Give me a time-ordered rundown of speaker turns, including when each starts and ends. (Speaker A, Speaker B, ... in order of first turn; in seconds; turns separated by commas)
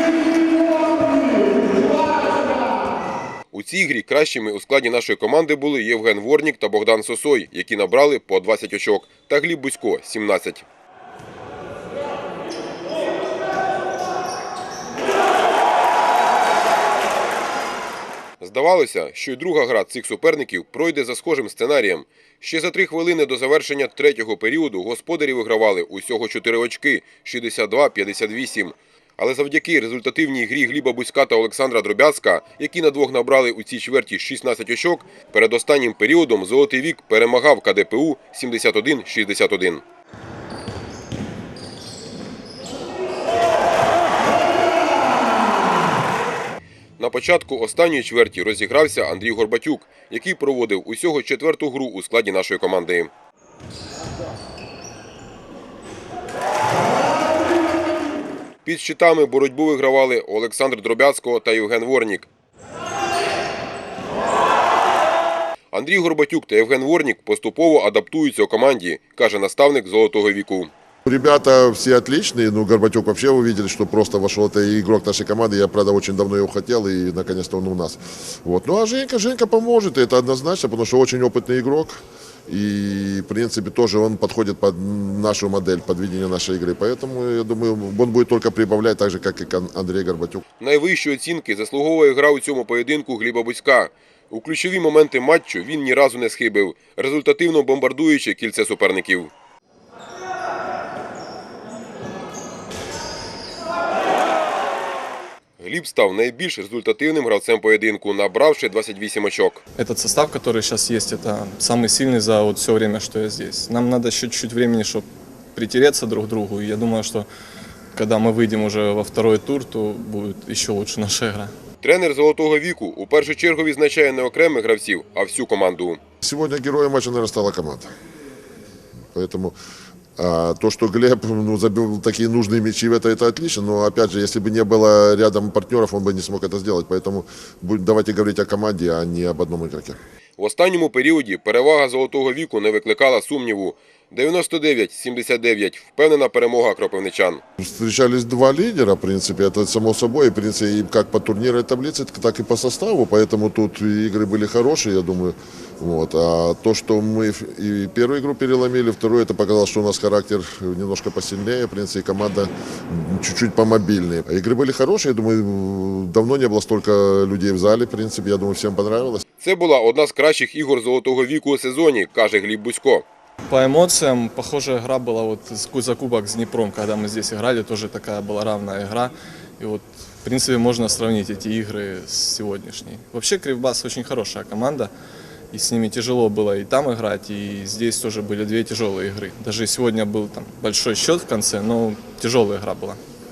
Speaker A: 3.5-10.7, Speaker A: 18.4-39.8, Speaker A: 47.0-53.1, Speaker A: 58.6-62.3, Speaker A: 65.7-70.7, Speaker B: 71.0-90.4, Speaker A: 90.6-99.3, Speaker A: 105.6-109.6, Speaker C: 109.8-117.3, Speaker C: 117.9-121.5, Speaker A: 121.8-126.0, Speaker B: 126.2-127.9, Speaker B: 129.1-129.6, Speaker B: 130.2-140.0, Speaker A: 140.4-147.4, Speaker B: 147.6-169.2, Speaker A: 169.4-173.0, Speaker C: 173.5-184.9, Speaker C: 185.5-193.0